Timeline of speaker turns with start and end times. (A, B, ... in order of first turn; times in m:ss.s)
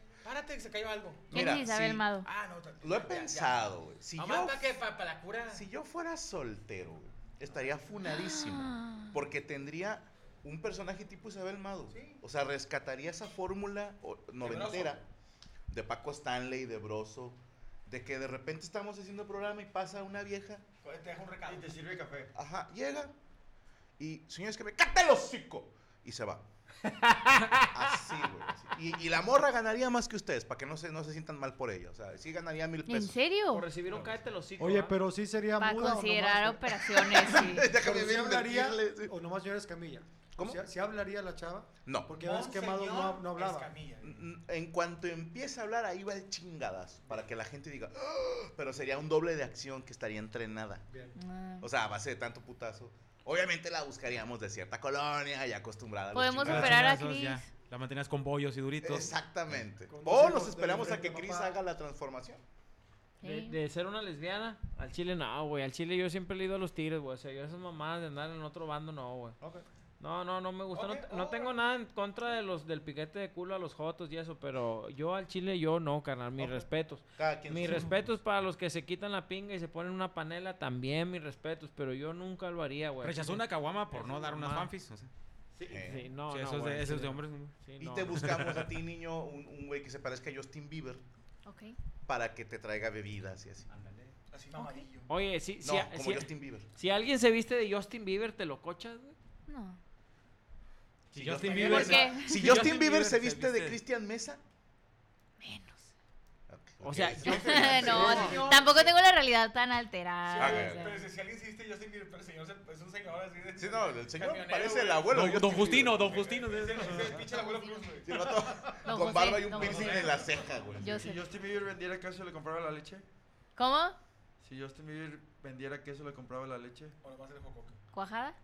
0:00.2-0:01.4 A
0:01.3-0:02.1 B
0:01.3-0:02.3 C
0:02.2-0:05.6 A
0:02.8-0:04.8 B
0:05.5-0:15.0 B
0:08.0-0:09.1 C
0:11.9-0:12.2 A
0:14.4-0:15.0 A
0:15.7-0:20.6 B
0:20.8-0:21.7 A
0:21.4-0:22.3 D
0:22.3-0:23.1 B
0:24.0-0:26.4 B
0:26.8-0:27.9 E
0:27.7-0:33.2 B
0:32.8-0:33.7 C
0:33.5-0:35.0 E
0:33.9-0:34.2 A
0:34.6-0:43.7 F
0:35.6-0:37.7 C
0:37.2-0:39.1 B
0:41.8-0:42.2 B
0:42.2-0:44.2 A
0:44.0-0:50.8 B
0:50.9-0:51.2 F
0:51.2-0:51.7 C
0:51.6-0:56.9 B
0:56.1-0:57.4 C
0:56.4-0:59.1 G
0:58.8-1:02.4 B
0:59.9-1:01.6 F
1:03.2-1:03.6 C
1:03.2-1:09.3 E
1:10.0-1:24.7 E
1:10.7-1:11.6 A
1:16.4-1:18.1 B
1:23.0-1:25.1 G
1:25.6-1:26.1 B
1:25.8-1:28.2 E
1:26.3-1:27.5 G
1:27.8-1:31.0 B
1:28.1-1:28.7 G
1:31.4-1:31.8 C
1:32.0-1:33.7 B
1:33.7-1:34.1 G
1:34.3-1:35.1 A
1:34.5-1:34.8 C
1:35.1-1:39.1 E
1:35.6-1:36.7 B
1:39.5-1:39.8 C
1:41.1-1:44.4 B
1:41.1-1:43.8 G
1:41.5-1:42.6 C
1:45.4-1:45.9 C
1:46.5-1:48.9 B
1:46.8-1:48.4 E
1:47.2-1:51.0 C
1:47.5-1:48.9 A
1:50.3-1:58.3 A
1:50.3-1:51.0 B
1:53.6-1:56.2 B
1:55.1-1:57.2 G
1:57.3-1:57.9 C
1:58.0-2:01.0 B
1:58.8-2:00.0 C
1:59.5-2:00.7 A
2:00.8-2:01.3 C
2:00.9-2:03.0 D
2:03.6-2:04.0 C
2:04.4-2:06.9 D
2:07.0-2:07.8 A
2:07.9-2:08.4 C